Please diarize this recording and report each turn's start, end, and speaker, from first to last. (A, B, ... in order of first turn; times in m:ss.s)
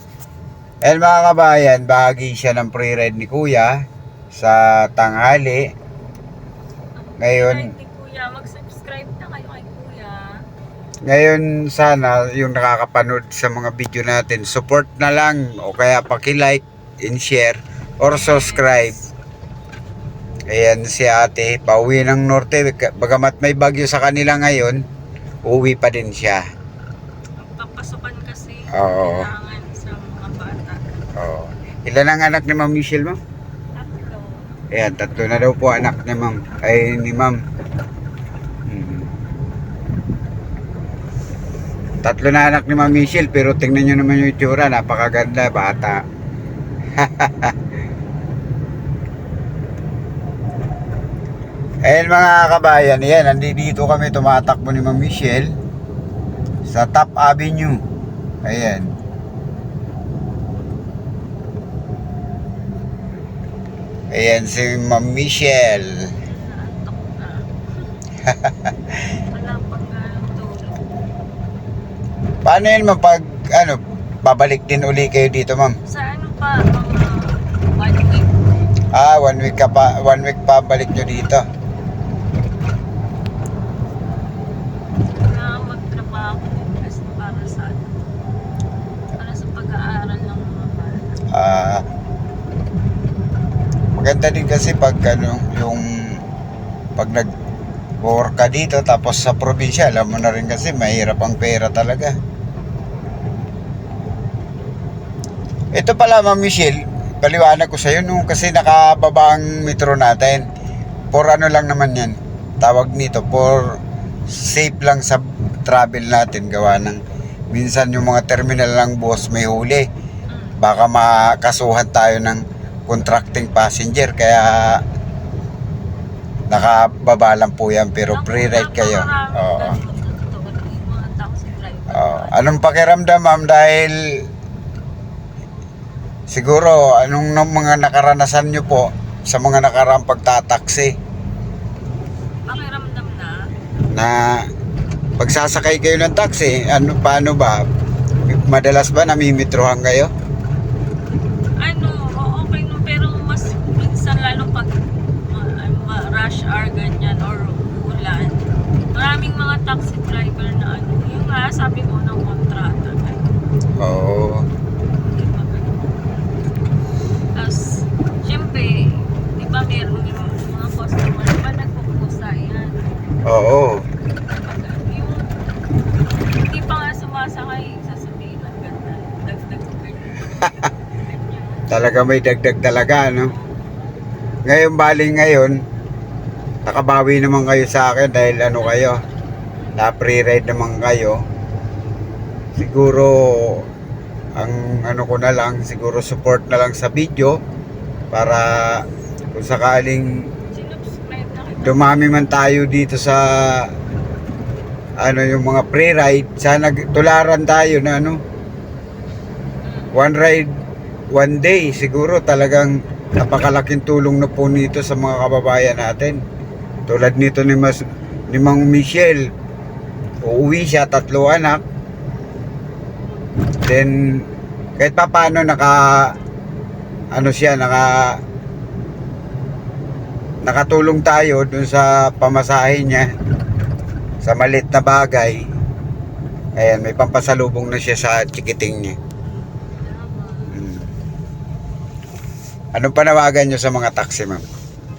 0:00.9-0:05.7 A
0:07.0-0:10.3 B
0:07.2-0:07.7 A
0:11.1-0:19.0 A
0:18.1-0:19.0 B
0:20.5-0:24.8 A
0:25.5-0:26.4 A
0:27.4-0:31.0 B
0:28.7-0:29.3 A
0:31.2-0:33.2 A
0:33.8-0:34.5 B
0:34.7-0:37.4 A
0:38.7-0:39.1 A
0:42.0-0:46.0 A
0:47.0-0:47.5 A
0:51.9-0:55.5 A
0:56.7-0:57.8 A
0:58.5-0:58.9 A
1:04.1-1:06.0 A
1:06.2-1:07.5 B
1:08.3-1:08.7 A
1:09.3-1:10.9 B
1:12.4-1:15.8 A
1:15.8-1:18.7 B
1:18.9-1:21.4 A
1:25.2-1:27.9 B
1:29.2-1:31.2 B
1:31.3-1:31.8 A
1:34.0-1:36.2 A
1:37.0-1:37.3 A
1:38.0-1:42.2 A
1:45.8-1:50.5 A
1:51.1-1:57.0 A
1:57.5-1:59.9 A
2:00.3-2:00.6 B
2:00.6-2:04.8 A
2:06.5-2:09.8 A
2:08.1-2:12.7 B
2:11.9-2:14.2 A
2:16.3-2:20.9 A
2:22.5-2:23.4 B
2:24.0-2:24.4 A
2:25.2-2:27.6 A
2:28.3-2:30.1 A
2:31.6-2:34.7 B
2:35.3-2:43.3 B
2:43.8-2:44.4 A
2:44.9-2:46.3 B
2:47.4-2:53.0 B
2:53.3-2:53.8 A
2:54.3-2:55.4 B
2:56.3-3:02.0 B
3:01.7-3:03.3 A
3:02.9-3:03.6 B
3:04.5-3:05.6 A
3:06.7-3:09.0 A
3:09.8-3:11.2 A
3:12.6-3:13.7 A
3:14.4-3:17.4 A
3:18.1-3:18.8 A
3:19.4-3:20.1 A
3:20.5-3:22.1 B
3:21.6-3:23.7 A
3:25.0-3:28.2 A
3:29.6-3:30.0 B
3:29.9-3:30.5 A
3:31.1-3:36.2 A
3:36.9-3:39.3 A
3:40.2-3:41.6 A
3:43.6-3:44.3 A
3:44.8-3:46.1 A
3:47.1-3:48.2 A
3:50.4-3:53.1 A
3:54.2-3:55.4 A
3:56.6-3:59.0 A
3:59.6-4:00.6 B
4:00.5-4:00.9 A
4:02.8-4:04.5 A